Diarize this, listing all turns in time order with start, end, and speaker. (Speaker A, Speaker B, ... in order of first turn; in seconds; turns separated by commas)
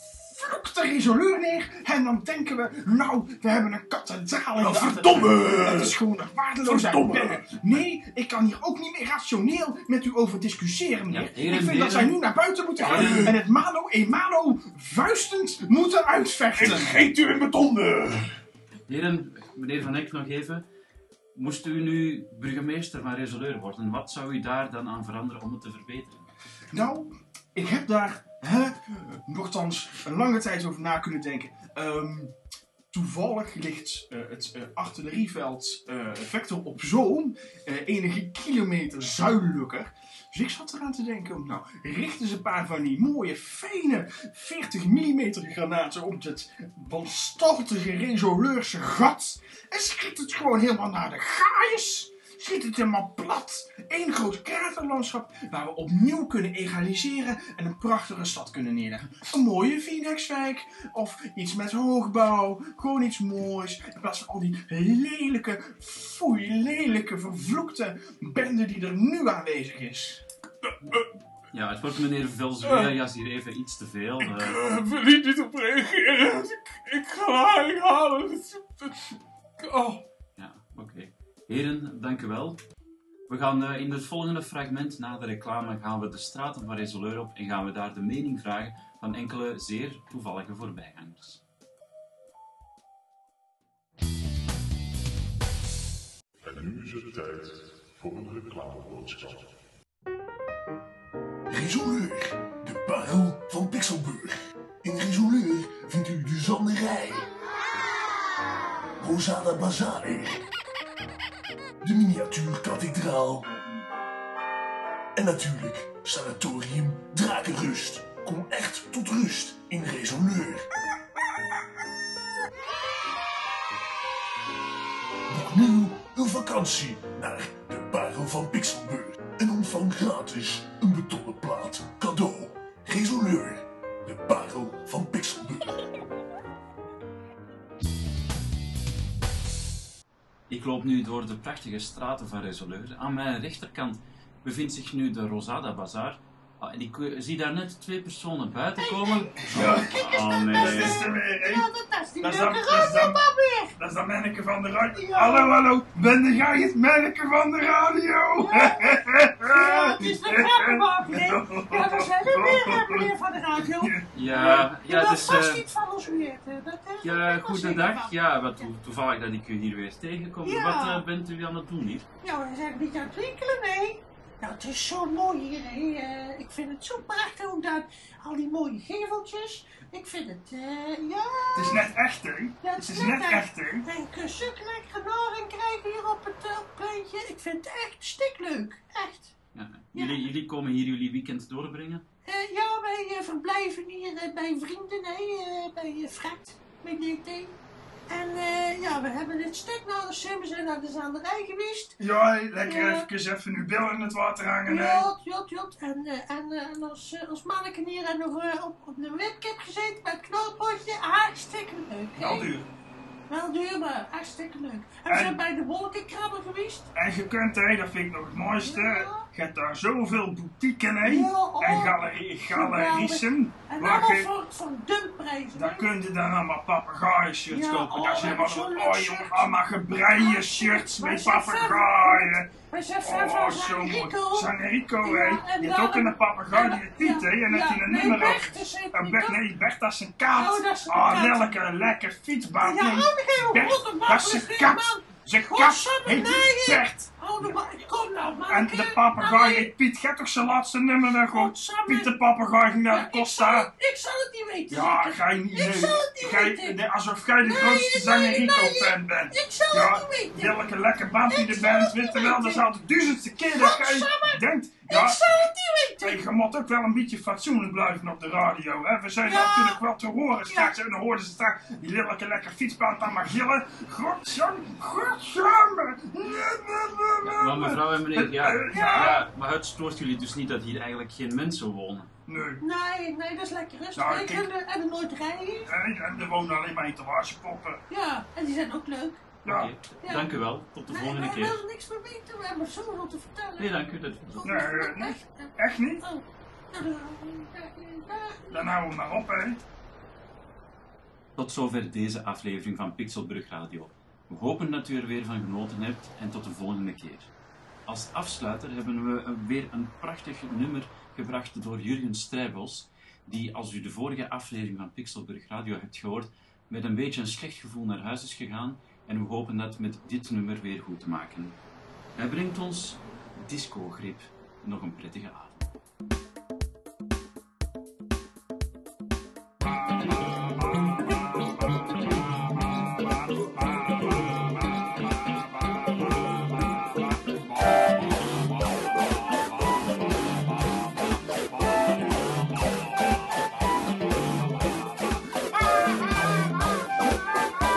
Speaker A: 0.3-17.0, Speaker B: 4.6-6.0, Speaker B: 6.6-7.5, Speaker C: 11.1-12.2, Speaker C: 12.8-13.4, Speaker B: 12.8-13.3, Speaker B: 16.6-18.4, Speaker C: 18.9-20.7, Speaker C: 21.4-26.3, Speaker A: 26.7-32.3, Speaker A: 32.9-70.2, Speaker C: 71.5-74.6, Speaker B: 74.4-78.5, Speaker C: 80.4-82.6, Speaker C: 83.3-91.4, Speaker D: 96.4-99.5, Speaker B: 101.5-107.3, Speaker B: 109.0-110.5, Speaker B: 111.8-113.6, Speaker B: 115.2-120.7, Speaker B: 125.3-135.8, Speaker C: 140.5-151.0, Speaker E: 148.8-153.7, Speaker F: 149.6-149.8, Speaker F: 150.5-151.7, Speaker F: 152.2-153.2, Speaker F: 153.8-163.1, Speaker E: 154.9-155.6, Speaker E: 158.4-163.9, Speaker F: 163.8-164.7, Speaker C: 164.1-165.7, Speaker E: 164.6-168.7, Speaker C: 167.0-172.1, Speaker E: 170.4-171.1, Speaker E: 172.2-181.9, Speaker F: 181.6-183.9, Speaker E: 182.6-189.3, Speaker C: 189.5-192.0, Speaker E: 189.9-190.2, Speaker E: 192.3-197.6, Speaker E: 198.1-202.0, Speaker F: 202.0-205.1, Speaker E: 202.7-203.1, Speaker E: 204.7-212.5, Speaker F: 212.2-212.7, Speaker E: 213.3-216.9, Speaker F: 215.1-215.4, Speaker F: 216.9-224.3, Speaker E: 218.6-219.3, Speaker E: 221.0-225.9, Speaker F: 225.5-242.8, Speaker E: 227.5-239.4, Speaker E: 240.3-241.4, Speaker E: 242.6-249.7, Speaker A: 242.8-247.6, Speaker F: 248.5-253.7, Speaker E: 251.2-252.1, Speaker E: 252.9-256.8, Speaker A: 254.7-256.8, Speaker F: 256.3-265.4, Speaker E: 257.4-260.6, Speaker E: 261.3-262.6, Speaker E: 263.4-266.2, Speaker F: 266.0-279.2, Speaker E: 269.2-269.8, Speaker E: 270.5-270.8, Speaker C: 277.2-282.1, Speaker E: 278.7-279.2, Speaker F: 282.3-282.6, Speaker E: 282.6-285.7, Speaker F: 283.9-284.5, Speaker F: 285.7-287.8, Speaker E: 287.9-289.4, Speaker F: 289.4-289.7, Speaker C: 289.5-291.6, Speaker E: 290.0-290.3, Speaker E: 290.9-293.8, Speaker C: 293.6-294.6, Speaker E: 294.4-298.8, Speaker F: 294.5-296.0, Speaker F: 298.5-299.6, Speaker C: 301.4-307.3, Speaker C: 307.9-321.6, Speaker C: 322.2-325.6, Speaker F: 329.7-337.4